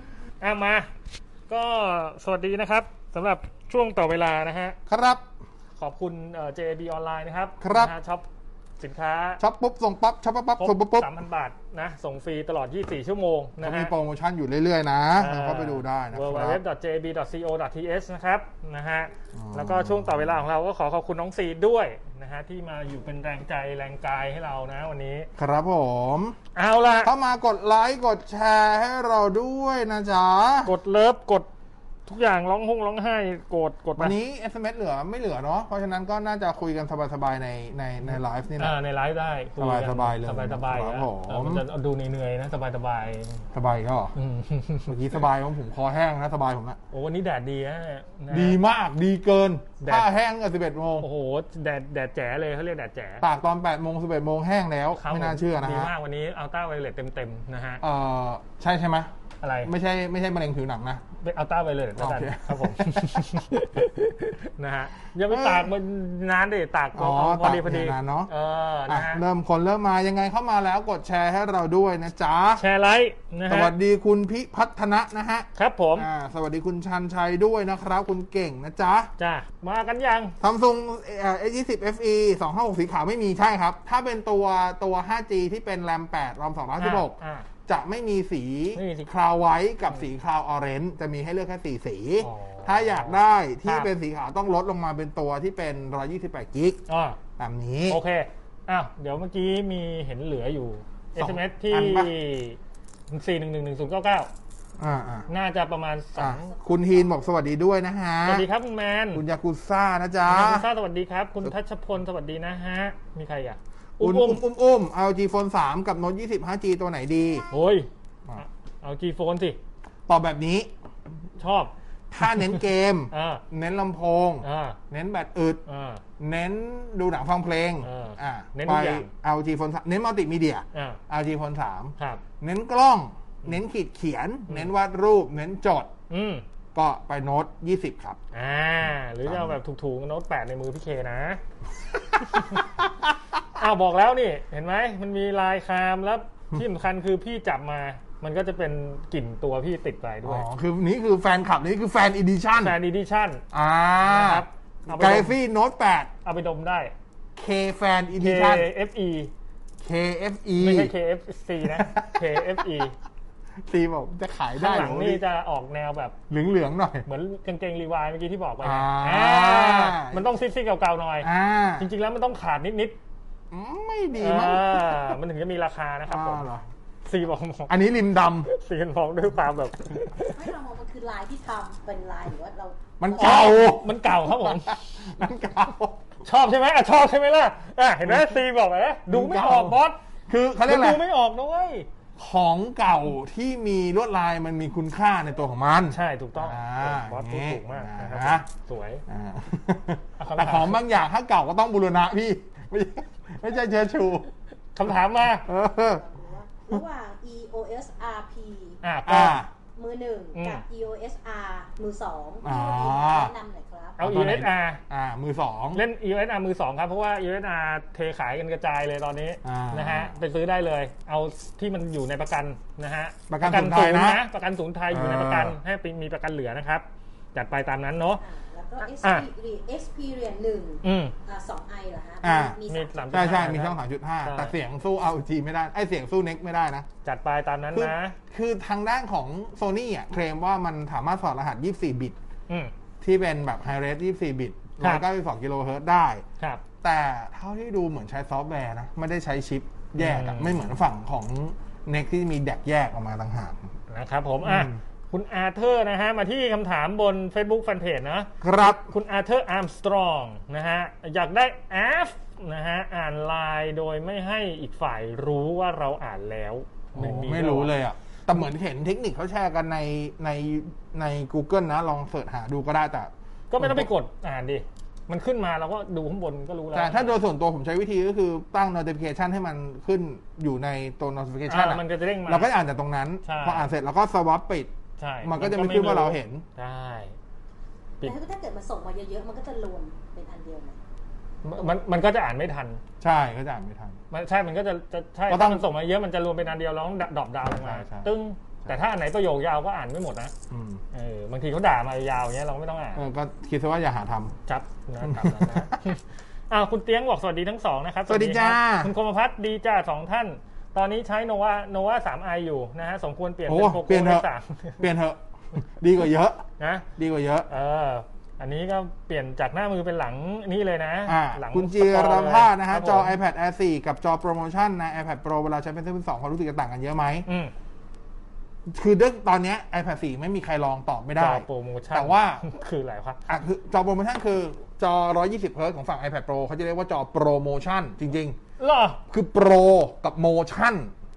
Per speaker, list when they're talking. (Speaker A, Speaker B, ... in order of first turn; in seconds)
Speaker A: 0.4-0.9, 1.5-4.8, 5.8-8.2, 8.8-9.4, 10.6-13.9, 15.2-25.3, 26.5-27.1, 30.6-31.5, 32.0-34.1, 38.6-43.4, 44.1-44.9, 46.9-48.6, 49.8-50.1, 51.0-53.2, 55.0-57.8, 59.4-59.7, 61.2-69.2, 72.6-73.7, 75.5-76.1, 79.2-80.3, 86.8-87.5, 88.7-89.1, 92.2-93.9, 96.9-97.2, 97.9-102.6, 103.1-104.3, 105.3-106.5, 108.2-109.2, 110.2-114.4, 117.5-119.6, 121.4-121.7, 122.2-122.6, 123.1-123.4, 124.4-124.8, 125.7-126.0, 127.8-129.1, 130.7-131.0, 136.1-136.4, 138.3-141.4, 142.3-142.6, 143.5-150.4, 152.6-153.4, 154.0-155.3, 156.2-156.9, 158.1-159.3, 160.6-162.9, 164.6-166.2, 167.1-173.0, 174.2-176.4, 177.0-177.7, 178.4-180.5, 183.2-184.9, 186.2-190.0, 190.7-191.9, 195.9-199.0, 200.2-200.8, 204.7-205.5, 208.8-209.4, 210.3-210.6, 214.0-214.8, 215.7-228.2, 228.8-229.2, 230.8-231.1, 232.7-234.5, 237.0-238.2, 244.8-245.1, 250.0-250.6, 253.9-267.7, 273.5-277.2, 281.5-282.5, 283.2-283.7, 285.0-287.1, 291.4-292.8, 294.1-300.3, 300.9-303.0, 304.4-314.8, 316.6-316.9, 317.5-323.1, 327.3-327.5, 331.2-333.2, 338.6-339.0
Speaker B: 4.9-5.2, 7.6-7.9, 9.4-11.1, 13.6-16.6, 19.3-20.4, 25.4-26.4, 27.0-30.7, 34.0-38.8, 39.6-41.6, 43.5-44.1, 44.9-46.8, 48.3-51.1, 53.2-55.9, 57.8-59.1, 59.6-61.0, 62.0-63.5, 65.3-65.7, 66.9-68.3, 68.9-72.6, 73.5-79.1, 80.4-87.2, 87.7-96.8, 97.4-98.0, 101.2-102.1, 104.8-105.3, 106.2-108.5, 109.1-110.7, 114.0-117.5, 120.1-120.7, 122.1-125.6, 126.2-135.9, 136.7-138.2, 139.2-139.6, 142.3-143.0, 150.2-152.8, 153.5-156.1, 157.3-158.7, 159.8-160.9, 161.6-162.6, 163.6-165.2, 166.3-167.1, 168.6-170.2, 171.2-171.9, 173.5-175.1, 176.1-176.7, 177.7-178.5, 183.0-186.0, 188.1-188.3, 189.1-191.0, 192.2-198.4, 199.1-204.3, 205.4-206.0, 209.1-209.5, 212.4-213.3, 214.0-215.8, 219.4-220.1, 223.3-224.2, 224.9-225.6, 232.2-232.6, 233.1-236.9, 237.7-242.2, 243.0-246.2, 246.8-253.7, 254.4-254.8, 258.4-258.8, 266.9-273.9, 276.7-284.7, 285.2-286.4, 293.0-294.0, 295.3-295.6, 297.4-298.1, 300.5-300.8, 302.9-304.3, 305.0-305.8, 308.1-308.9, 313.4-314.3, 314.8-315.2, 315.8-316.4, 317.0-317.5, 321.1-327.2, 328.7-332.4, 333.3-338.4, 339.1-340.9
Speaker C: 106.4-107.1, 180.2-183.6, 205.6-208.8, 209.8-214.0, 228.2-233.1, 288.0-290.8